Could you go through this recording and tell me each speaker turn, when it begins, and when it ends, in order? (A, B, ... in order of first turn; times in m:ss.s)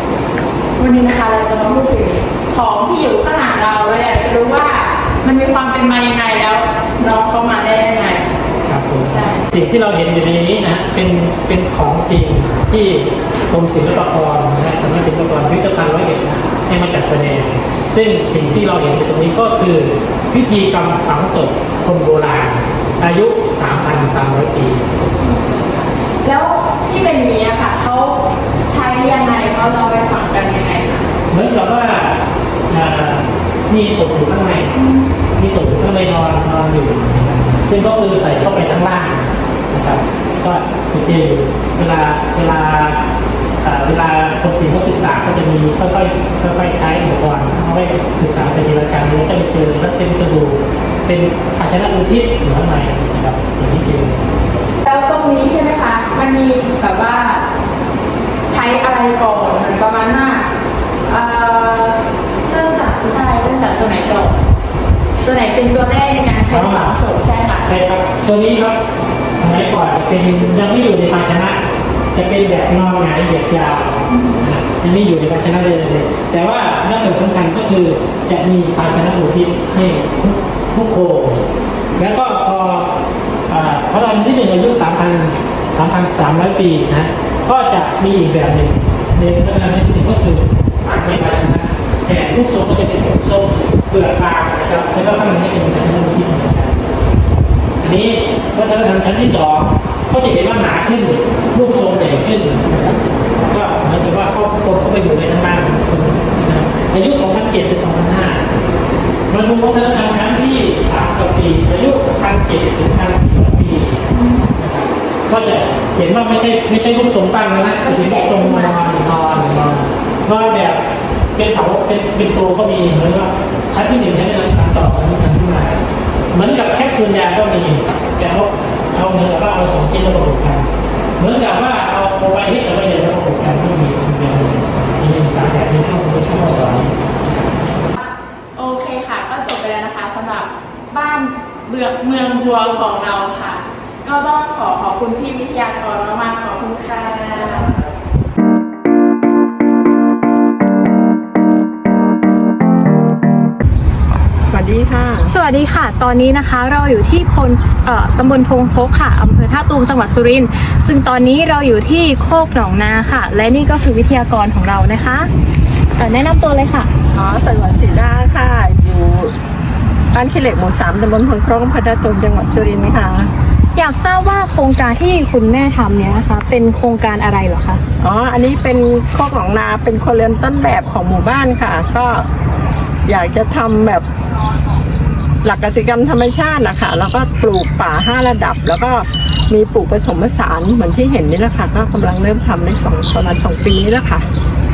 0:00.8-0:08.2 A
0:08.6-0:25.0 B
0:09.1-0:09.5 A
0:25.2-0:25.6 A
0:26.2-0:31.1 A
0:31.3-0:34.7 B
0:34.8-0:35.1 A
0:35.3-0:43.0 B
0:43.6-0:54.2 B
0:54.8-0:57.4 A
0:58.5-1:00.5 A
1:01.0-1:04.4 A
1:05.2-1:07.7 A
1:06.5-1:06.9 B
1:07.7-1:08.8 B
1:09.4-1:11.6 B
1:12.1-1:21.4 B
1:14.1-1:14.4 A
1:22.0-1:22.9 B
1:23.5-1:36.8 B
1:37.8-1:48.4 B
1:49.3-1:54.0 B
1:54.2-1:54.4 A
1:54.6-2:00.8 B
1:57.8-1:58.9 A
2:01.4-2:05.8 B
2:06.3-2:10.7 B
2:11.2-2:17.5 B
2:18.6-2:27.8 A
2:34.5-2:35.3 C
2:35.3-2:45.3 D
2:46.0-2:46.9 D
2:47.1-2:49.3 C
2:50.1-2:53.3 C
2:53.8-2:57.8 D
2:58.0-3:02.3 C
3:03.1-3:04.0 C
3:05.4-3:14.3 C